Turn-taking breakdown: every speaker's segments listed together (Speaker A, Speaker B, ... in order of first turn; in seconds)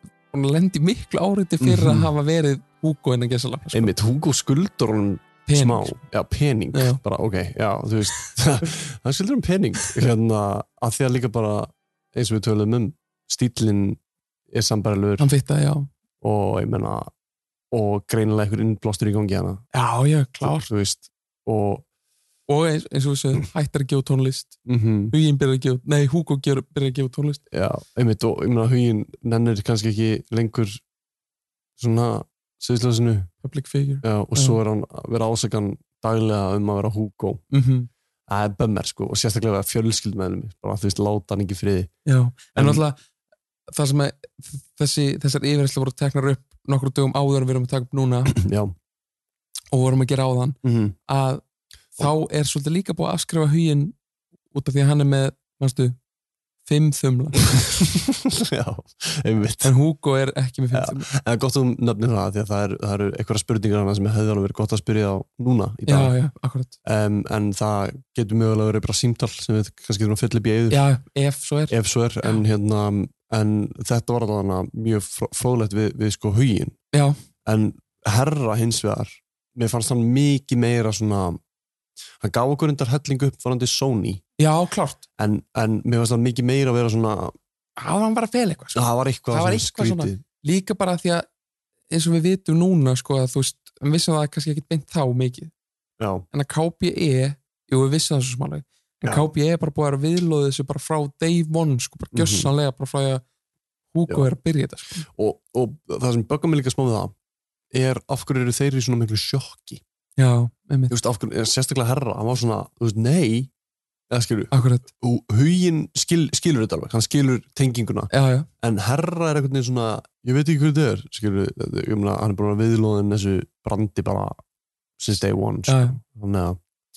Speaker A: 0.3-3.9, 5.5-6.0, 6.7-7.0, 15.2-15.9, 19.7-20.7, 22.5-24.6, 25.1-27.4, 33.4-34.6, 37.5-37.9, 42.0-43.0, 43.7-48.3, 49.7-51.4, 52.0-53.9, 54.5-56.0, 56.6-57.4, 59.6-61.1, 65.9-66.7, 70.7-72.4, 76.9-77.2, 84.4-85.0, 87.8-91.3, 91.9-95.5, 96.3-103.2, 103.9-105.0, 110.2-110.9, 114.5-114.9, 118.1-118.5, 125.7-126.0
Speaker B: 1.6-2.1, 3.7-14.0, 14.5-15.3, 16.2-17.1, 17.7-19.6, 20.4-21.9, 24.6-25.1, 27.5-30.8, 31.8-33.3, 34.0-37.4, 38.3-41.9, 42.5-42.8, 48.3-48.7, 50.6-51.0, 57.5-59.7, 60.7-66.1, 66.8-70.9, 71.7-76.8, 77.4-81.4, 82.2-84.2, 85.2-87.3, 88.7-90.2, 96.0-96.2, 102.1-102.5, 105.1-107.1, 107.7-109.8, 110.9-113.5, 114.1-124.4, 125.0-126.6